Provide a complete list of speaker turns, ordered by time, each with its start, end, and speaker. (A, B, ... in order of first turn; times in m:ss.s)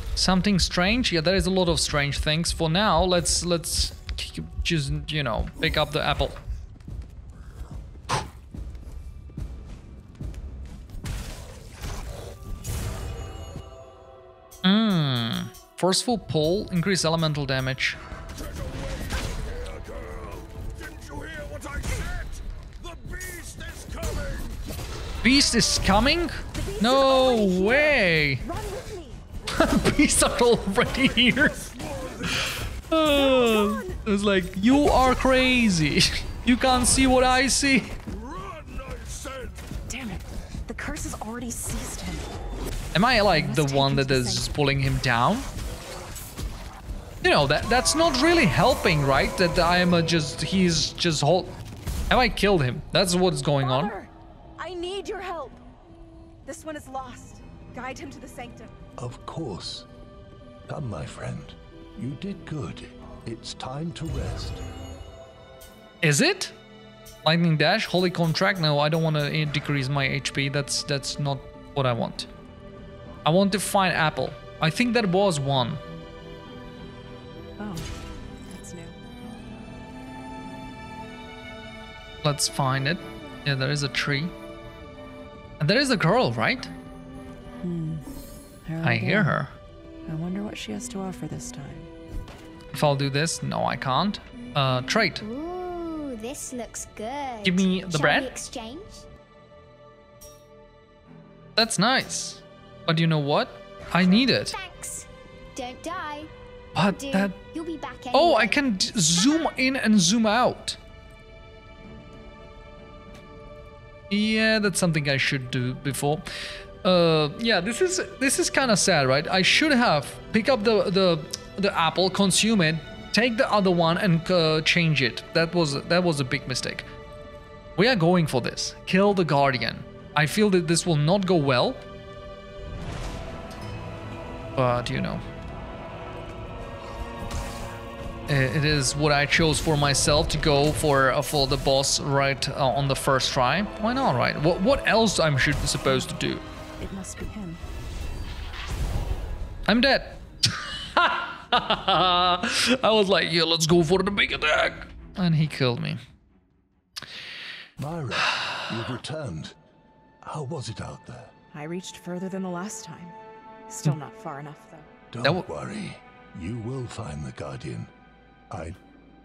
0:00.2-0:06.4 A
0:14.6-0:18.0 A
0:18.6-0:20.4 B
0:21.0-0:24.5 B
0:25.2-0:28.4 A
0:26.5-0:29.2 C
0:29.5-0:31.7 A
0:32.2-0:38.0 A
0:33.1-0:34.0 C
0:38.6-0:39.5 B
0:39.9-0:42.3 C
0:42.9-0:45.5 A
0:43.3-0:44.5 C
0:47.2-0:51.6 A
0:52.1-0:53.9 A
0:53.6-0:55.6 C
0:56.4-0:58.7 C
0:59.0-0:59.9 B
1:00.7-1:04.6 B
1:06.0-1:06.5 A
1:07.2-1:12.3 A
1:13.2-1:15.8 A
1:17.6-1:17.9 C
1:18.5-1:19.0 C
1:22.2-1:24.3 A
1:25.6-1:26.7 A
1:27.6-1:28.0 C
1:28.6-1:29.4 C
1:28.8-1:29.5 A
1:30.1-1:31.9 C
1:32.7-1:35.2 A
1:35.2-1:39.0 D
1:37.4-1:38.3 A
1:41.6-1:44.5 A
1:44.1-1:46.3 D
1:46.7-1:47.3 A
1:46.8-1:49.5 D
1:48.1-1:50.8 A
1:54.1-1:56.3 A
1:56.8-2:06.8 A
2:07.8-2:11.8 A
2:14.6-2:15.2 A
2:18.3-2:26.4 A
2:26.8-2:27.6 C
2:29.7-2:36.0 A
2:37.8-2:39.5 B
2:38.4-2:38.6 A
2:40.2-2:41.3 B
2:41.5-2:43.1 C
2:43.7-2:44.9 C
2:45.1-2:47.9 B
2:48.5-2:48.8 B